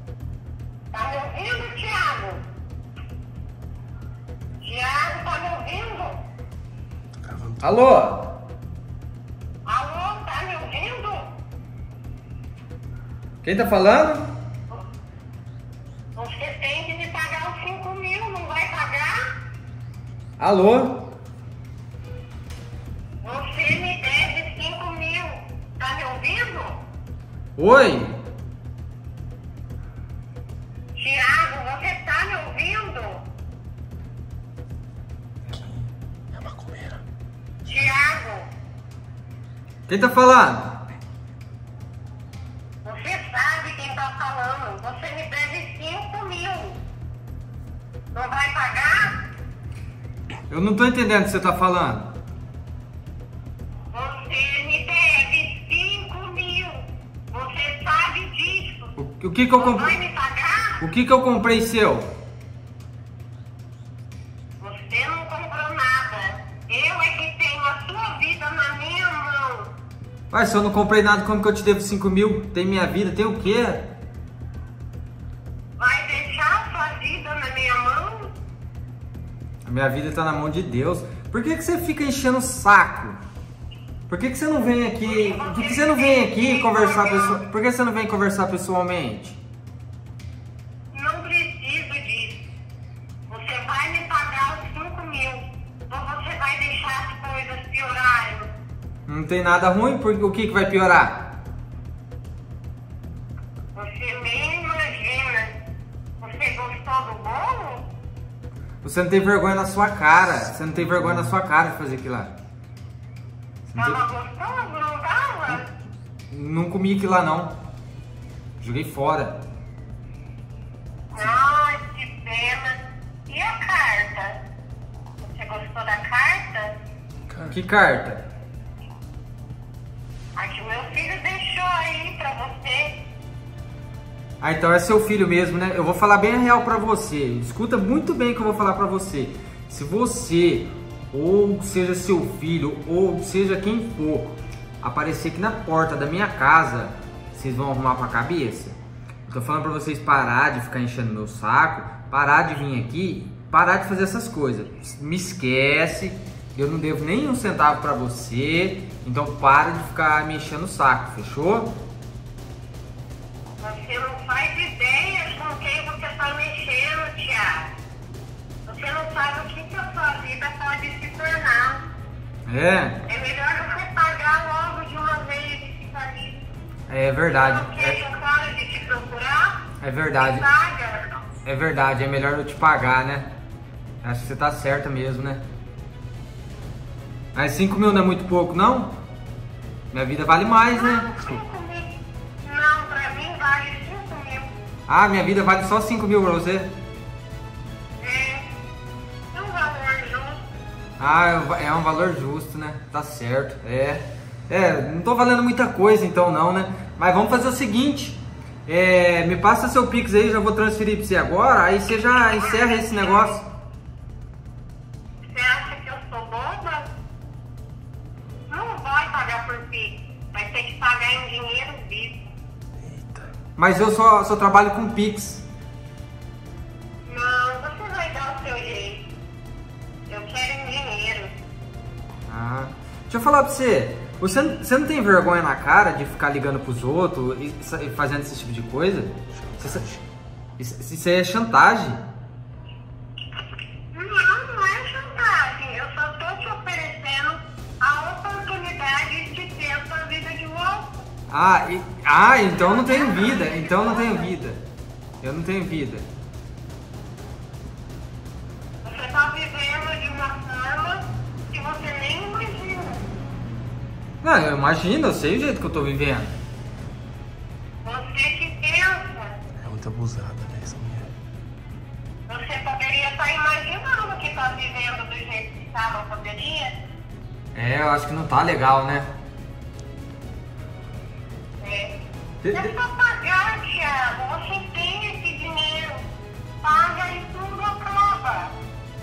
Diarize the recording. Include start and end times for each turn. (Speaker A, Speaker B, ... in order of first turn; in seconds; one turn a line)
Speaker A: 0.9-2.4
Speaker A: 4.6-6.2
Speaker B: 7.2-7.7
Speaker C: 7.6-8.3
Speaker A: 9.7-11.3
Speaker C: 13.4-14.3
Speaker A: 16.2-19.2
Speaker C: 20.4-21.1
Speaker A: 23.2-26.8
Speaker C: 27.6-28.2
Speaker A: 31.0-33.2
Speaker B: 35.5-37.0
Speaker A: 37.7-38.5
Speaker C: 39.9-40.8
Speaker A: 42.9-46.8
Speaker A: 48.1-49.2
Speaker C: 50.5-52.1
Speaker A: 53.9-58.9
Speaker C: 59.0-60.0
Speaker A: 59.6-60.9
Speaker C: 60.8-62.1
Speaker A: 64.6-69.7
Speaker C: 70.3-73.9
Speaker A: 75.8-78.3
Speaker C: 79.7-83.2
Speaker C: 84.1-89.4
Speaker A: 85.0-87.4
Speaker A: 90.9-92.4
Speaker A: 93.3-98.5
Speaker C: 99.1-101.3
Speaker A: 103.8-105.6
Speaker A: 106.2-107.9
Speaker C: 108.8-112.3
Speaker C: 113.7-114.0
Speaker A: 113.8-115.7
Speaker C: 116.3-117.5
Speaker C: 118.6-119.4
Speaker A: 121.1-124.4
Speaker A: 125.2-126.8
Speaker B: 127.3-127.6
Speaker C: 127.5-128.2
Speaker A: 130.4-133.0
Speaker C: 134.4-161.7
Speaker A: 163.6-167.7
Speaker A: 168.7-171.8
Speaker C: 172.5-173.0
Speaker A: 173.1-176.4
Speaker C: 176.9-178.0
Speaker A: 177.3-179.7
Speaker C: 179.8-180.5
Speaker A: 180.2-181.2
Speaker C: 181.4-183.3
Speaker C: 184.0-185.4
Speaker C: 187.3-189.0
Speaker C: 189.9-191.1
Speaker A: 190.7-194.5
Speaker C: 194.9-196.7
Speaker A: 198.0-198.5
Speaker A: 199.3-200.4
Speaker C: 201.0-213.4
Speaker A: 212.2-213.2
Speaker A: 215.2-216.9
Speaker A: 218.5-222.2
Speaker B: 222.8-223.3
Speaker C: 223.6-225.4
Speaker A: 227.1-229.1
Speaker A: 230.1-231.3
Speaker C: 232.3-239.9
Speaker B: 239.3-240.0
Speaker C: 240.6-242.0
Speaker A: 243.9-250.9
Speaker C: 251.3-254.6
Speaker A: 252.5-254.3
Speaker C: 255.2-256.1
Speaker A: 258.8-263.0
Speaker C: 264.2-266.3
Speaker A: 267.8-269.4
Speaker B: 269.6-271.1
Speaker A: 272.3-276.7
Speaker C: 277.5-279.1
Speaker A: 281.6-281.9
Speaker C: 282.4-282.7
Speaker A: 282.5-286.1
Speaker A: 286.6-288.5